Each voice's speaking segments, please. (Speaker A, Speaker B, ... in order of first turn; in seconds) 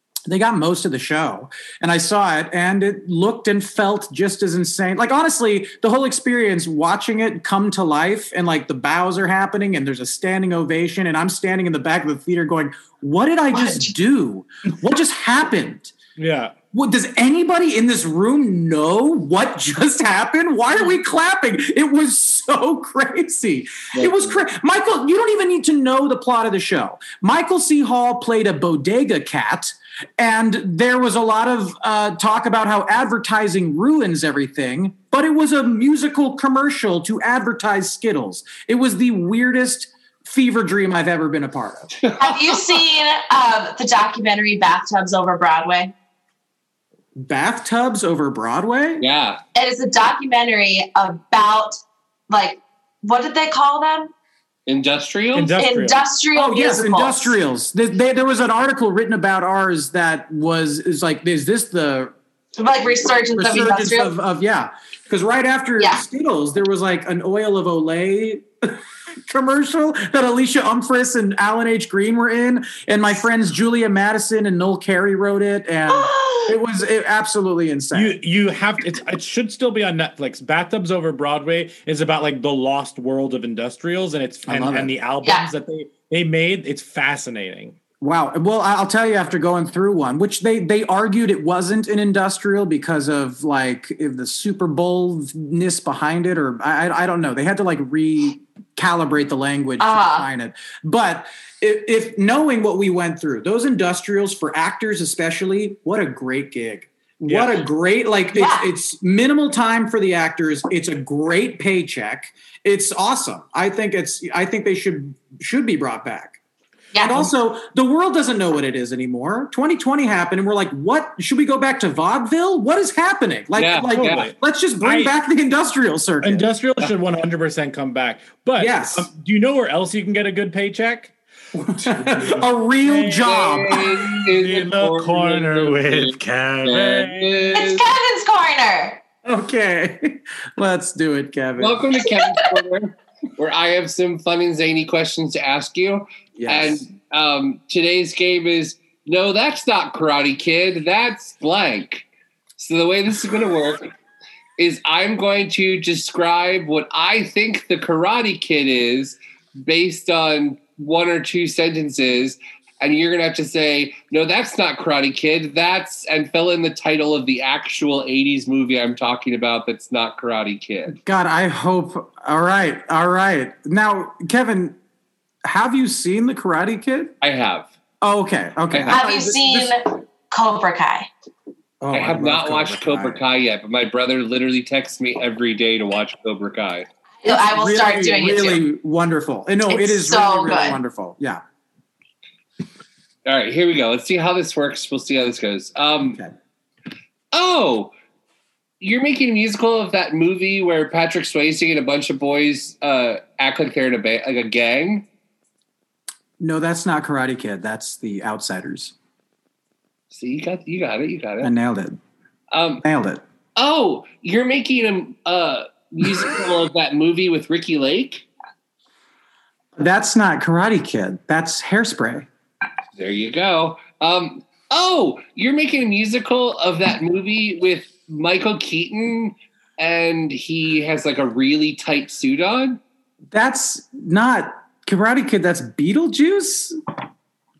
Speaker A: 0.3-15.9, 16.7-41.9, 47.1-49.0, 56.3-62.1, 63.2-78.2, 84.5-84.9, 88.0-116.4, 117.0-126.5, 128.6-129.1, 131.6-134.1, 139.2-141.8, 146.4-146.8, 170.9-174.8, 175.4-177.1, 178.0-179.7, 181.8-183.2, 187.2-191.4, 206.4-208.9, 211.4-212.0, 212.8-213.2, 219.8-222.3, 233.3-236.8
Speaker B: 13.5-13.9, 42.2-45.9, 49.5-54.1, 55.6-57.4, 62.6-64.1, 65.8-66.0, 75.9-76.5, 85.2-85.5, 99.8-100.3, 108.3-108.7, 116.9-117.3, 137.5-139.0, 178.9-181.1, 187.2-188.6, 189.7-190.8
Speaker C: 16.2-16.6, 55.3-56.0, 77.9-87.8, 107.3-107.6, 123.9-125.1, 126.2-131.1, 131.8-137.6
Speaker D: 49.0-49.4, 54.7-55.6, 123.5-124.2, 133.3-137.8, 141.6-152.1, 152.6-153.9, 154.6-171.0, 177.2-177.7, 178.7-179.0, 181.9-186.9, 193.2-196.2, 197.3-197.9, 198.8-205.1, 210.1-211.5, 212.5-212.8, 213.6-218.3, 222.9-232.8